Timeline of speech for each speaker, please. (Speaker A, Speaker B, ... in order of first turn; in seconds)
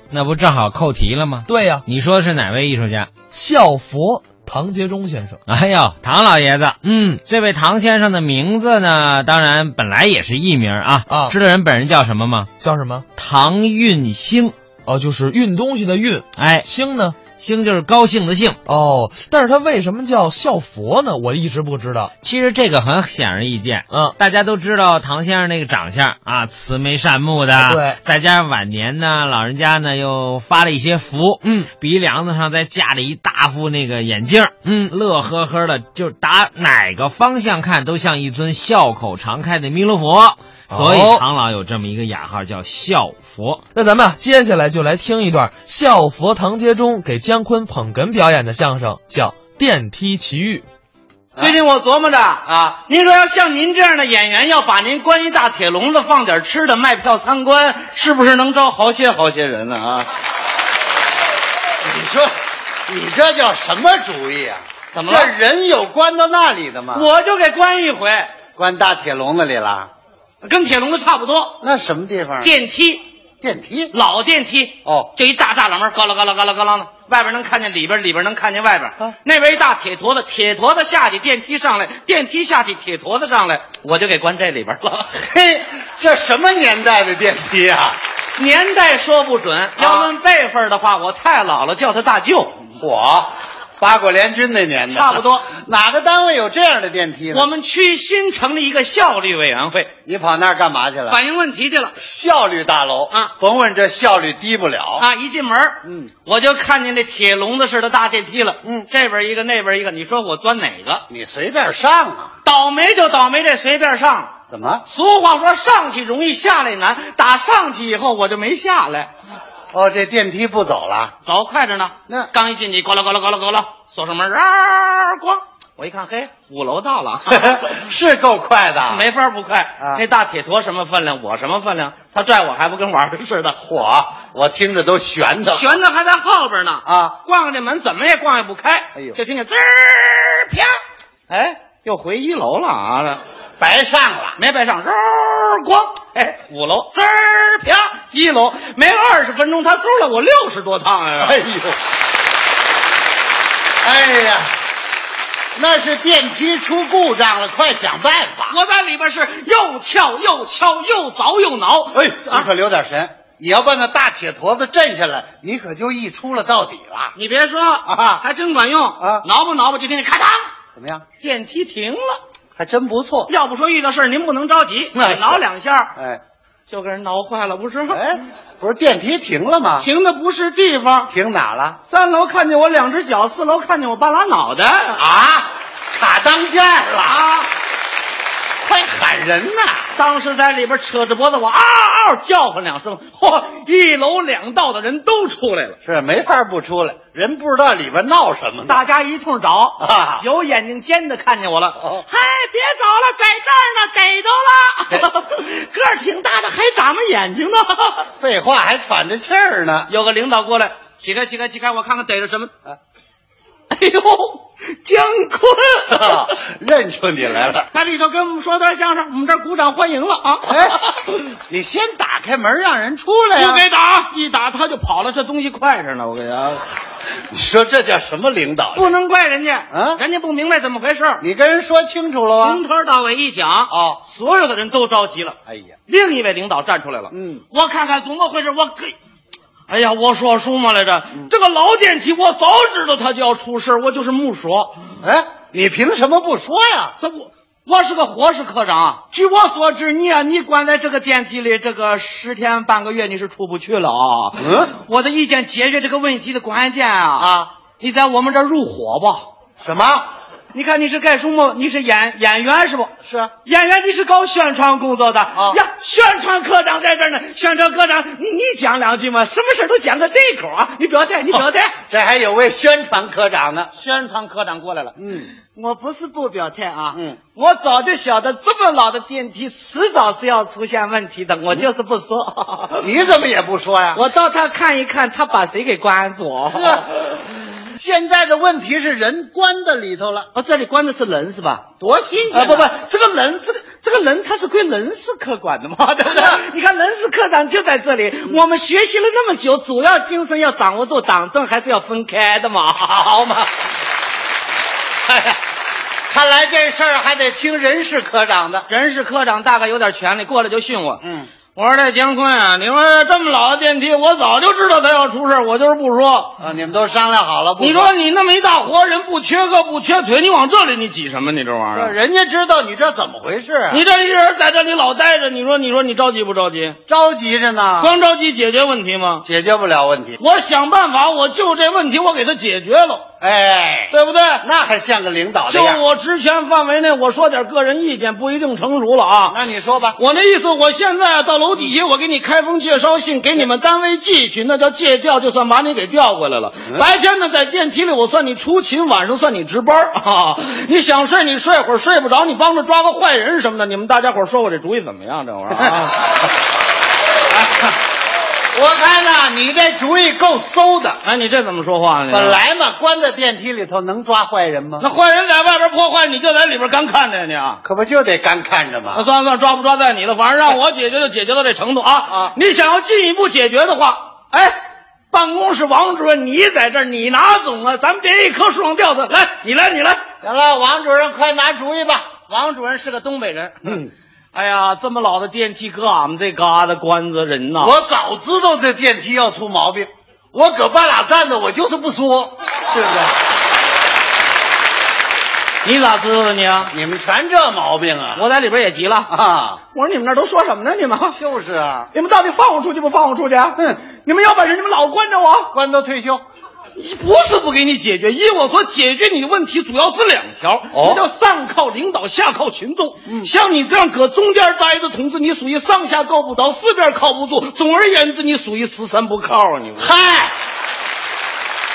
Speaker A: 0.1-3.1, 5.5-6.8, 7.3-12.5, 13.2-14.5, 16.4-16.6, 17.4-18.6, 22.2-43.6
Speaker B: 0.1-1.4, 2.1-3.1, 5.9-6.6, 7.6-10.8, 11.6-12.2, 13.5-14.5, 17.4-18.4, 22.4-23.6, 24.5-31.2, 31.8-34.4, 35.0-42.0, 51.4-60.1, 64.9-65.3, 66.9-68.3, 70.4-71.6, 72.4-73.0, 73.9-85.1, 88.4-92.6, 94.9-95.5, 97.3-99.9, 101.1-102.0, 105.0-111.0, 112.5-114.3, 114.9-119.1, 121.3-127.6, 128.9-133.6, 135.5-140.7, 141.3-143.2, 144.4-151.4, 158.5-162.5, 167.2-170.5, 171.2-172.2, 173.3-175.9, 176.7-178.2, 179.8-181.1, 181.9-185.0, 187.1-187.5, 189.9-195.8, 198.7-208.1, 209.9-212.5, 213.7-216.3, 217.7-221.2, 223.4-226.6, 228.7-231.2, 232.4-235.4, 235.9-239.0, 239.7-244.9, 247.0-259.3, 260.5-271.8, 273.8-282.9, 283.9-287.0, 290.4-291.6, 292.3-303.1, 308.7-311.0, 311.6-316.3, 317.6-321.9, 323.7-326.8, 327.8-329.2, 330.2-333.1, 333.9-334.4, 335.5-339.4, 340.0-356.0, 361.0-362.4, 364.8-367.6, 368.9-374.6, 375.1-380.0, 382.3-383.8, 384.3-387.8, 395.6-396.7, 398.2-399.1, 399.7-401.2, 401.9-405.5, 406.8-419.9
Speaker C: 1.5-1.9, 3.3-5.4, 6.8-7.2, 11.1-11.4, 12.6-13.1, 14.9-17.2, 18.7-22.1, 23.9-24.2, 27.6-28.0, 31.4-31.7, 34.6-34.9, 40.7-41.2, 43.7-50.6
Speaker D: 52.5-52.8, 61.8-62.3, 62.9-67.1, 68.6-69.9, 71.6-72.5, 73.4-73.9, 74.8-75.1, 85.2-88.0, 89.8-90.1, 92.7-97.5, 100.1-101.2, 102.0-105.1, 105.8-106.1, 111.1-112.3, 114.5-114.8, 119.7-121.1, 127.3-129.1, 133.6-135.8, 136.9-137.2, 143.6-144.4, 151.2-151.8, 153.8-154.5, 155.6-158.6, 161.9-167.1, 167.9-168.2, 169.0-169.2, 170.8-171.0, 172.6-173.3, 175.0-175.4, 177.9-179.9, 181.1-181.8, 185.0-187.2, 188.6-189.9, 195.8-198.8, 199.8-200.2, 201.8-202.1, 208.2-209.9, 215.9-217.7, 220.5-220.8, 221.5-223.6, 227.3-228.9, 229.7-230.0, 231.2-232.6, 233.7-234.0, 235.5-235.8, 237.1-237.4, 245.0-246.9, 254.4-254.7, 257.2-257.5, 259.6-260.1, 263.1-263.3, 271.3-273.7, 275.0-275.3, 276.9-277.2, 282.8-284.0, 286.5-286.9, 287.8-290.3, 291.8-292.7, 302.9-303.5, 305.1-305.4, 306.1-308.7, 311.0-311.3, 316.4-317.9, 321.7-323.9, 326.9-328.0, 329.2-330.2, 333.2-335.8, 339.3-340.0, 355.5-355.9, 357.3-357.8, 358.5-361.0, 362.1-364.9, 367.6-369.1, 372.1-372.4, 380.2-382.1, 383.6-383.9, 387.6-393.2, 396.7-398.2, 399.1-399.6, 401.1-401.9, 405.5-406.2, 410.7-411.1, 413.1-413.3, 419.8-420.3